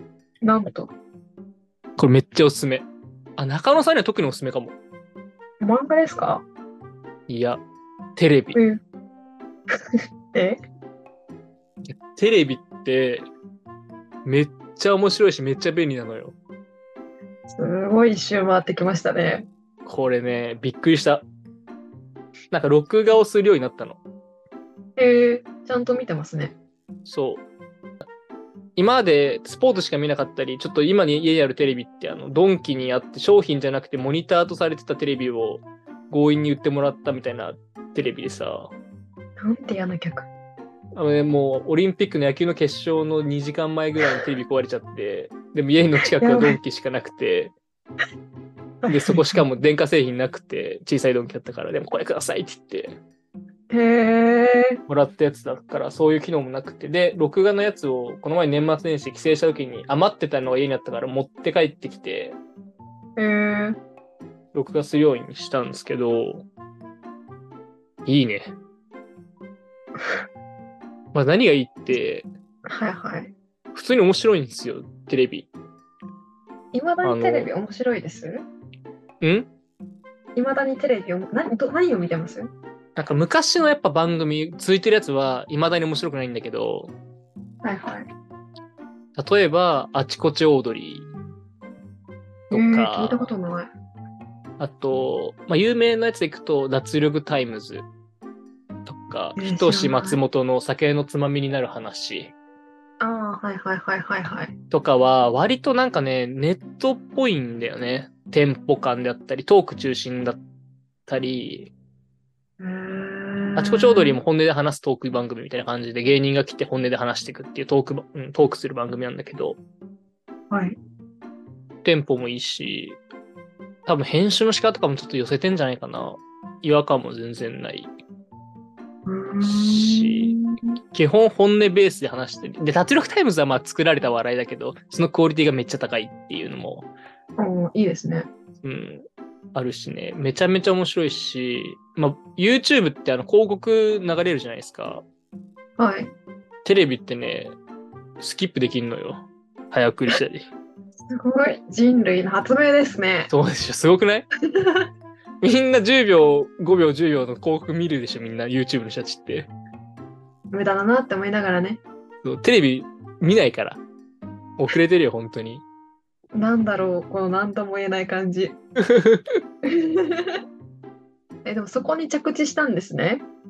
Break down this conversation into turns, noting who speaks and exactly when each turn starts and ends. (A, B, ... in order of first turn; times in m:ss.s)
0:00.4-0:00.9 A
0:02.0-0:04.8 B
0:05.6-0:06.4 A
0:07.3-0:07.6 B
0:08.2-0:08.6 B
0:08.5-0:08.8 A
0:10.3-0:10.6 A
0:11.9-0:13.3 B
0:14.2-0:16.4 B
0:17.5-0:19.5 A
0:19.8-0:21.2 B
0:22.5-0:24.0 B
0:25.0-0:26.5 A
0:27.0-0:27.4 B
0:28.8-0:38.7 B
0:39.4-0:40.3 A
0:40.9-0:47.6 B
0:46.2-0:46.6 A
0:48.8-0:49.4 A
0:48.9-0:53.0 B
0:53.7-0:54.8 A
0:54.9-1:02.4 B
1:03.2-1:03.8 A
1:04.5-1:06.4 B
1:08.0-1:08.5 B
1:11.1-1:12.3 B
1:12.7-1:13.3 A
1:13.7-1:15.5 B
1:16.7-1:18.4 A
1:17.0-1:17.5 B
1:19.2-1:19.5 B
1:20.4-1:22.5 A
1:23.0-1:26.9 B
1:27.6-1:28.0 A
1:29.2-1:31.1 B
1:32.5-1:33.3 B
1:32.5-1:33.7 A
1:34.6-1:37.9 B
1:38.8-1:42.3 B
1:39.4-1:40.2 A
1:43.0-1:44.5 A
1:44.7-1:50.4 B
1:51.1-1:51.7 B
1:52.6-1:54.2 A
1:53.6-1:59.6 B
2:00.5-2:00.8 A
2:01.8-2:03.0 B
2:03.8-2:07.9 B
2:09.1-2:10.8 A
2:09.4-2:10.4 B
2:10.9-2:16.9 B
2:17.4-2:18.3 A
2:18.6-2:25.0 B
2:25.8-2:26.1 A
2:26.6-2:27.6 B
2:28.2-2:30.5 B
2:31.1-2:33.3 A
2:33.3-2:34.2 B
2:34.5-2:34.9 A
2:35.4-2:39.5 B
2:40.5-2:41.8 A
2:42.2-2:43.8 B
2:44.6-2:45.6 B
2:46.3-2:48.6 A
2:48.9-2:49.2 B
2:49.7-2:50.3 A
2:51.4-2:53.2 A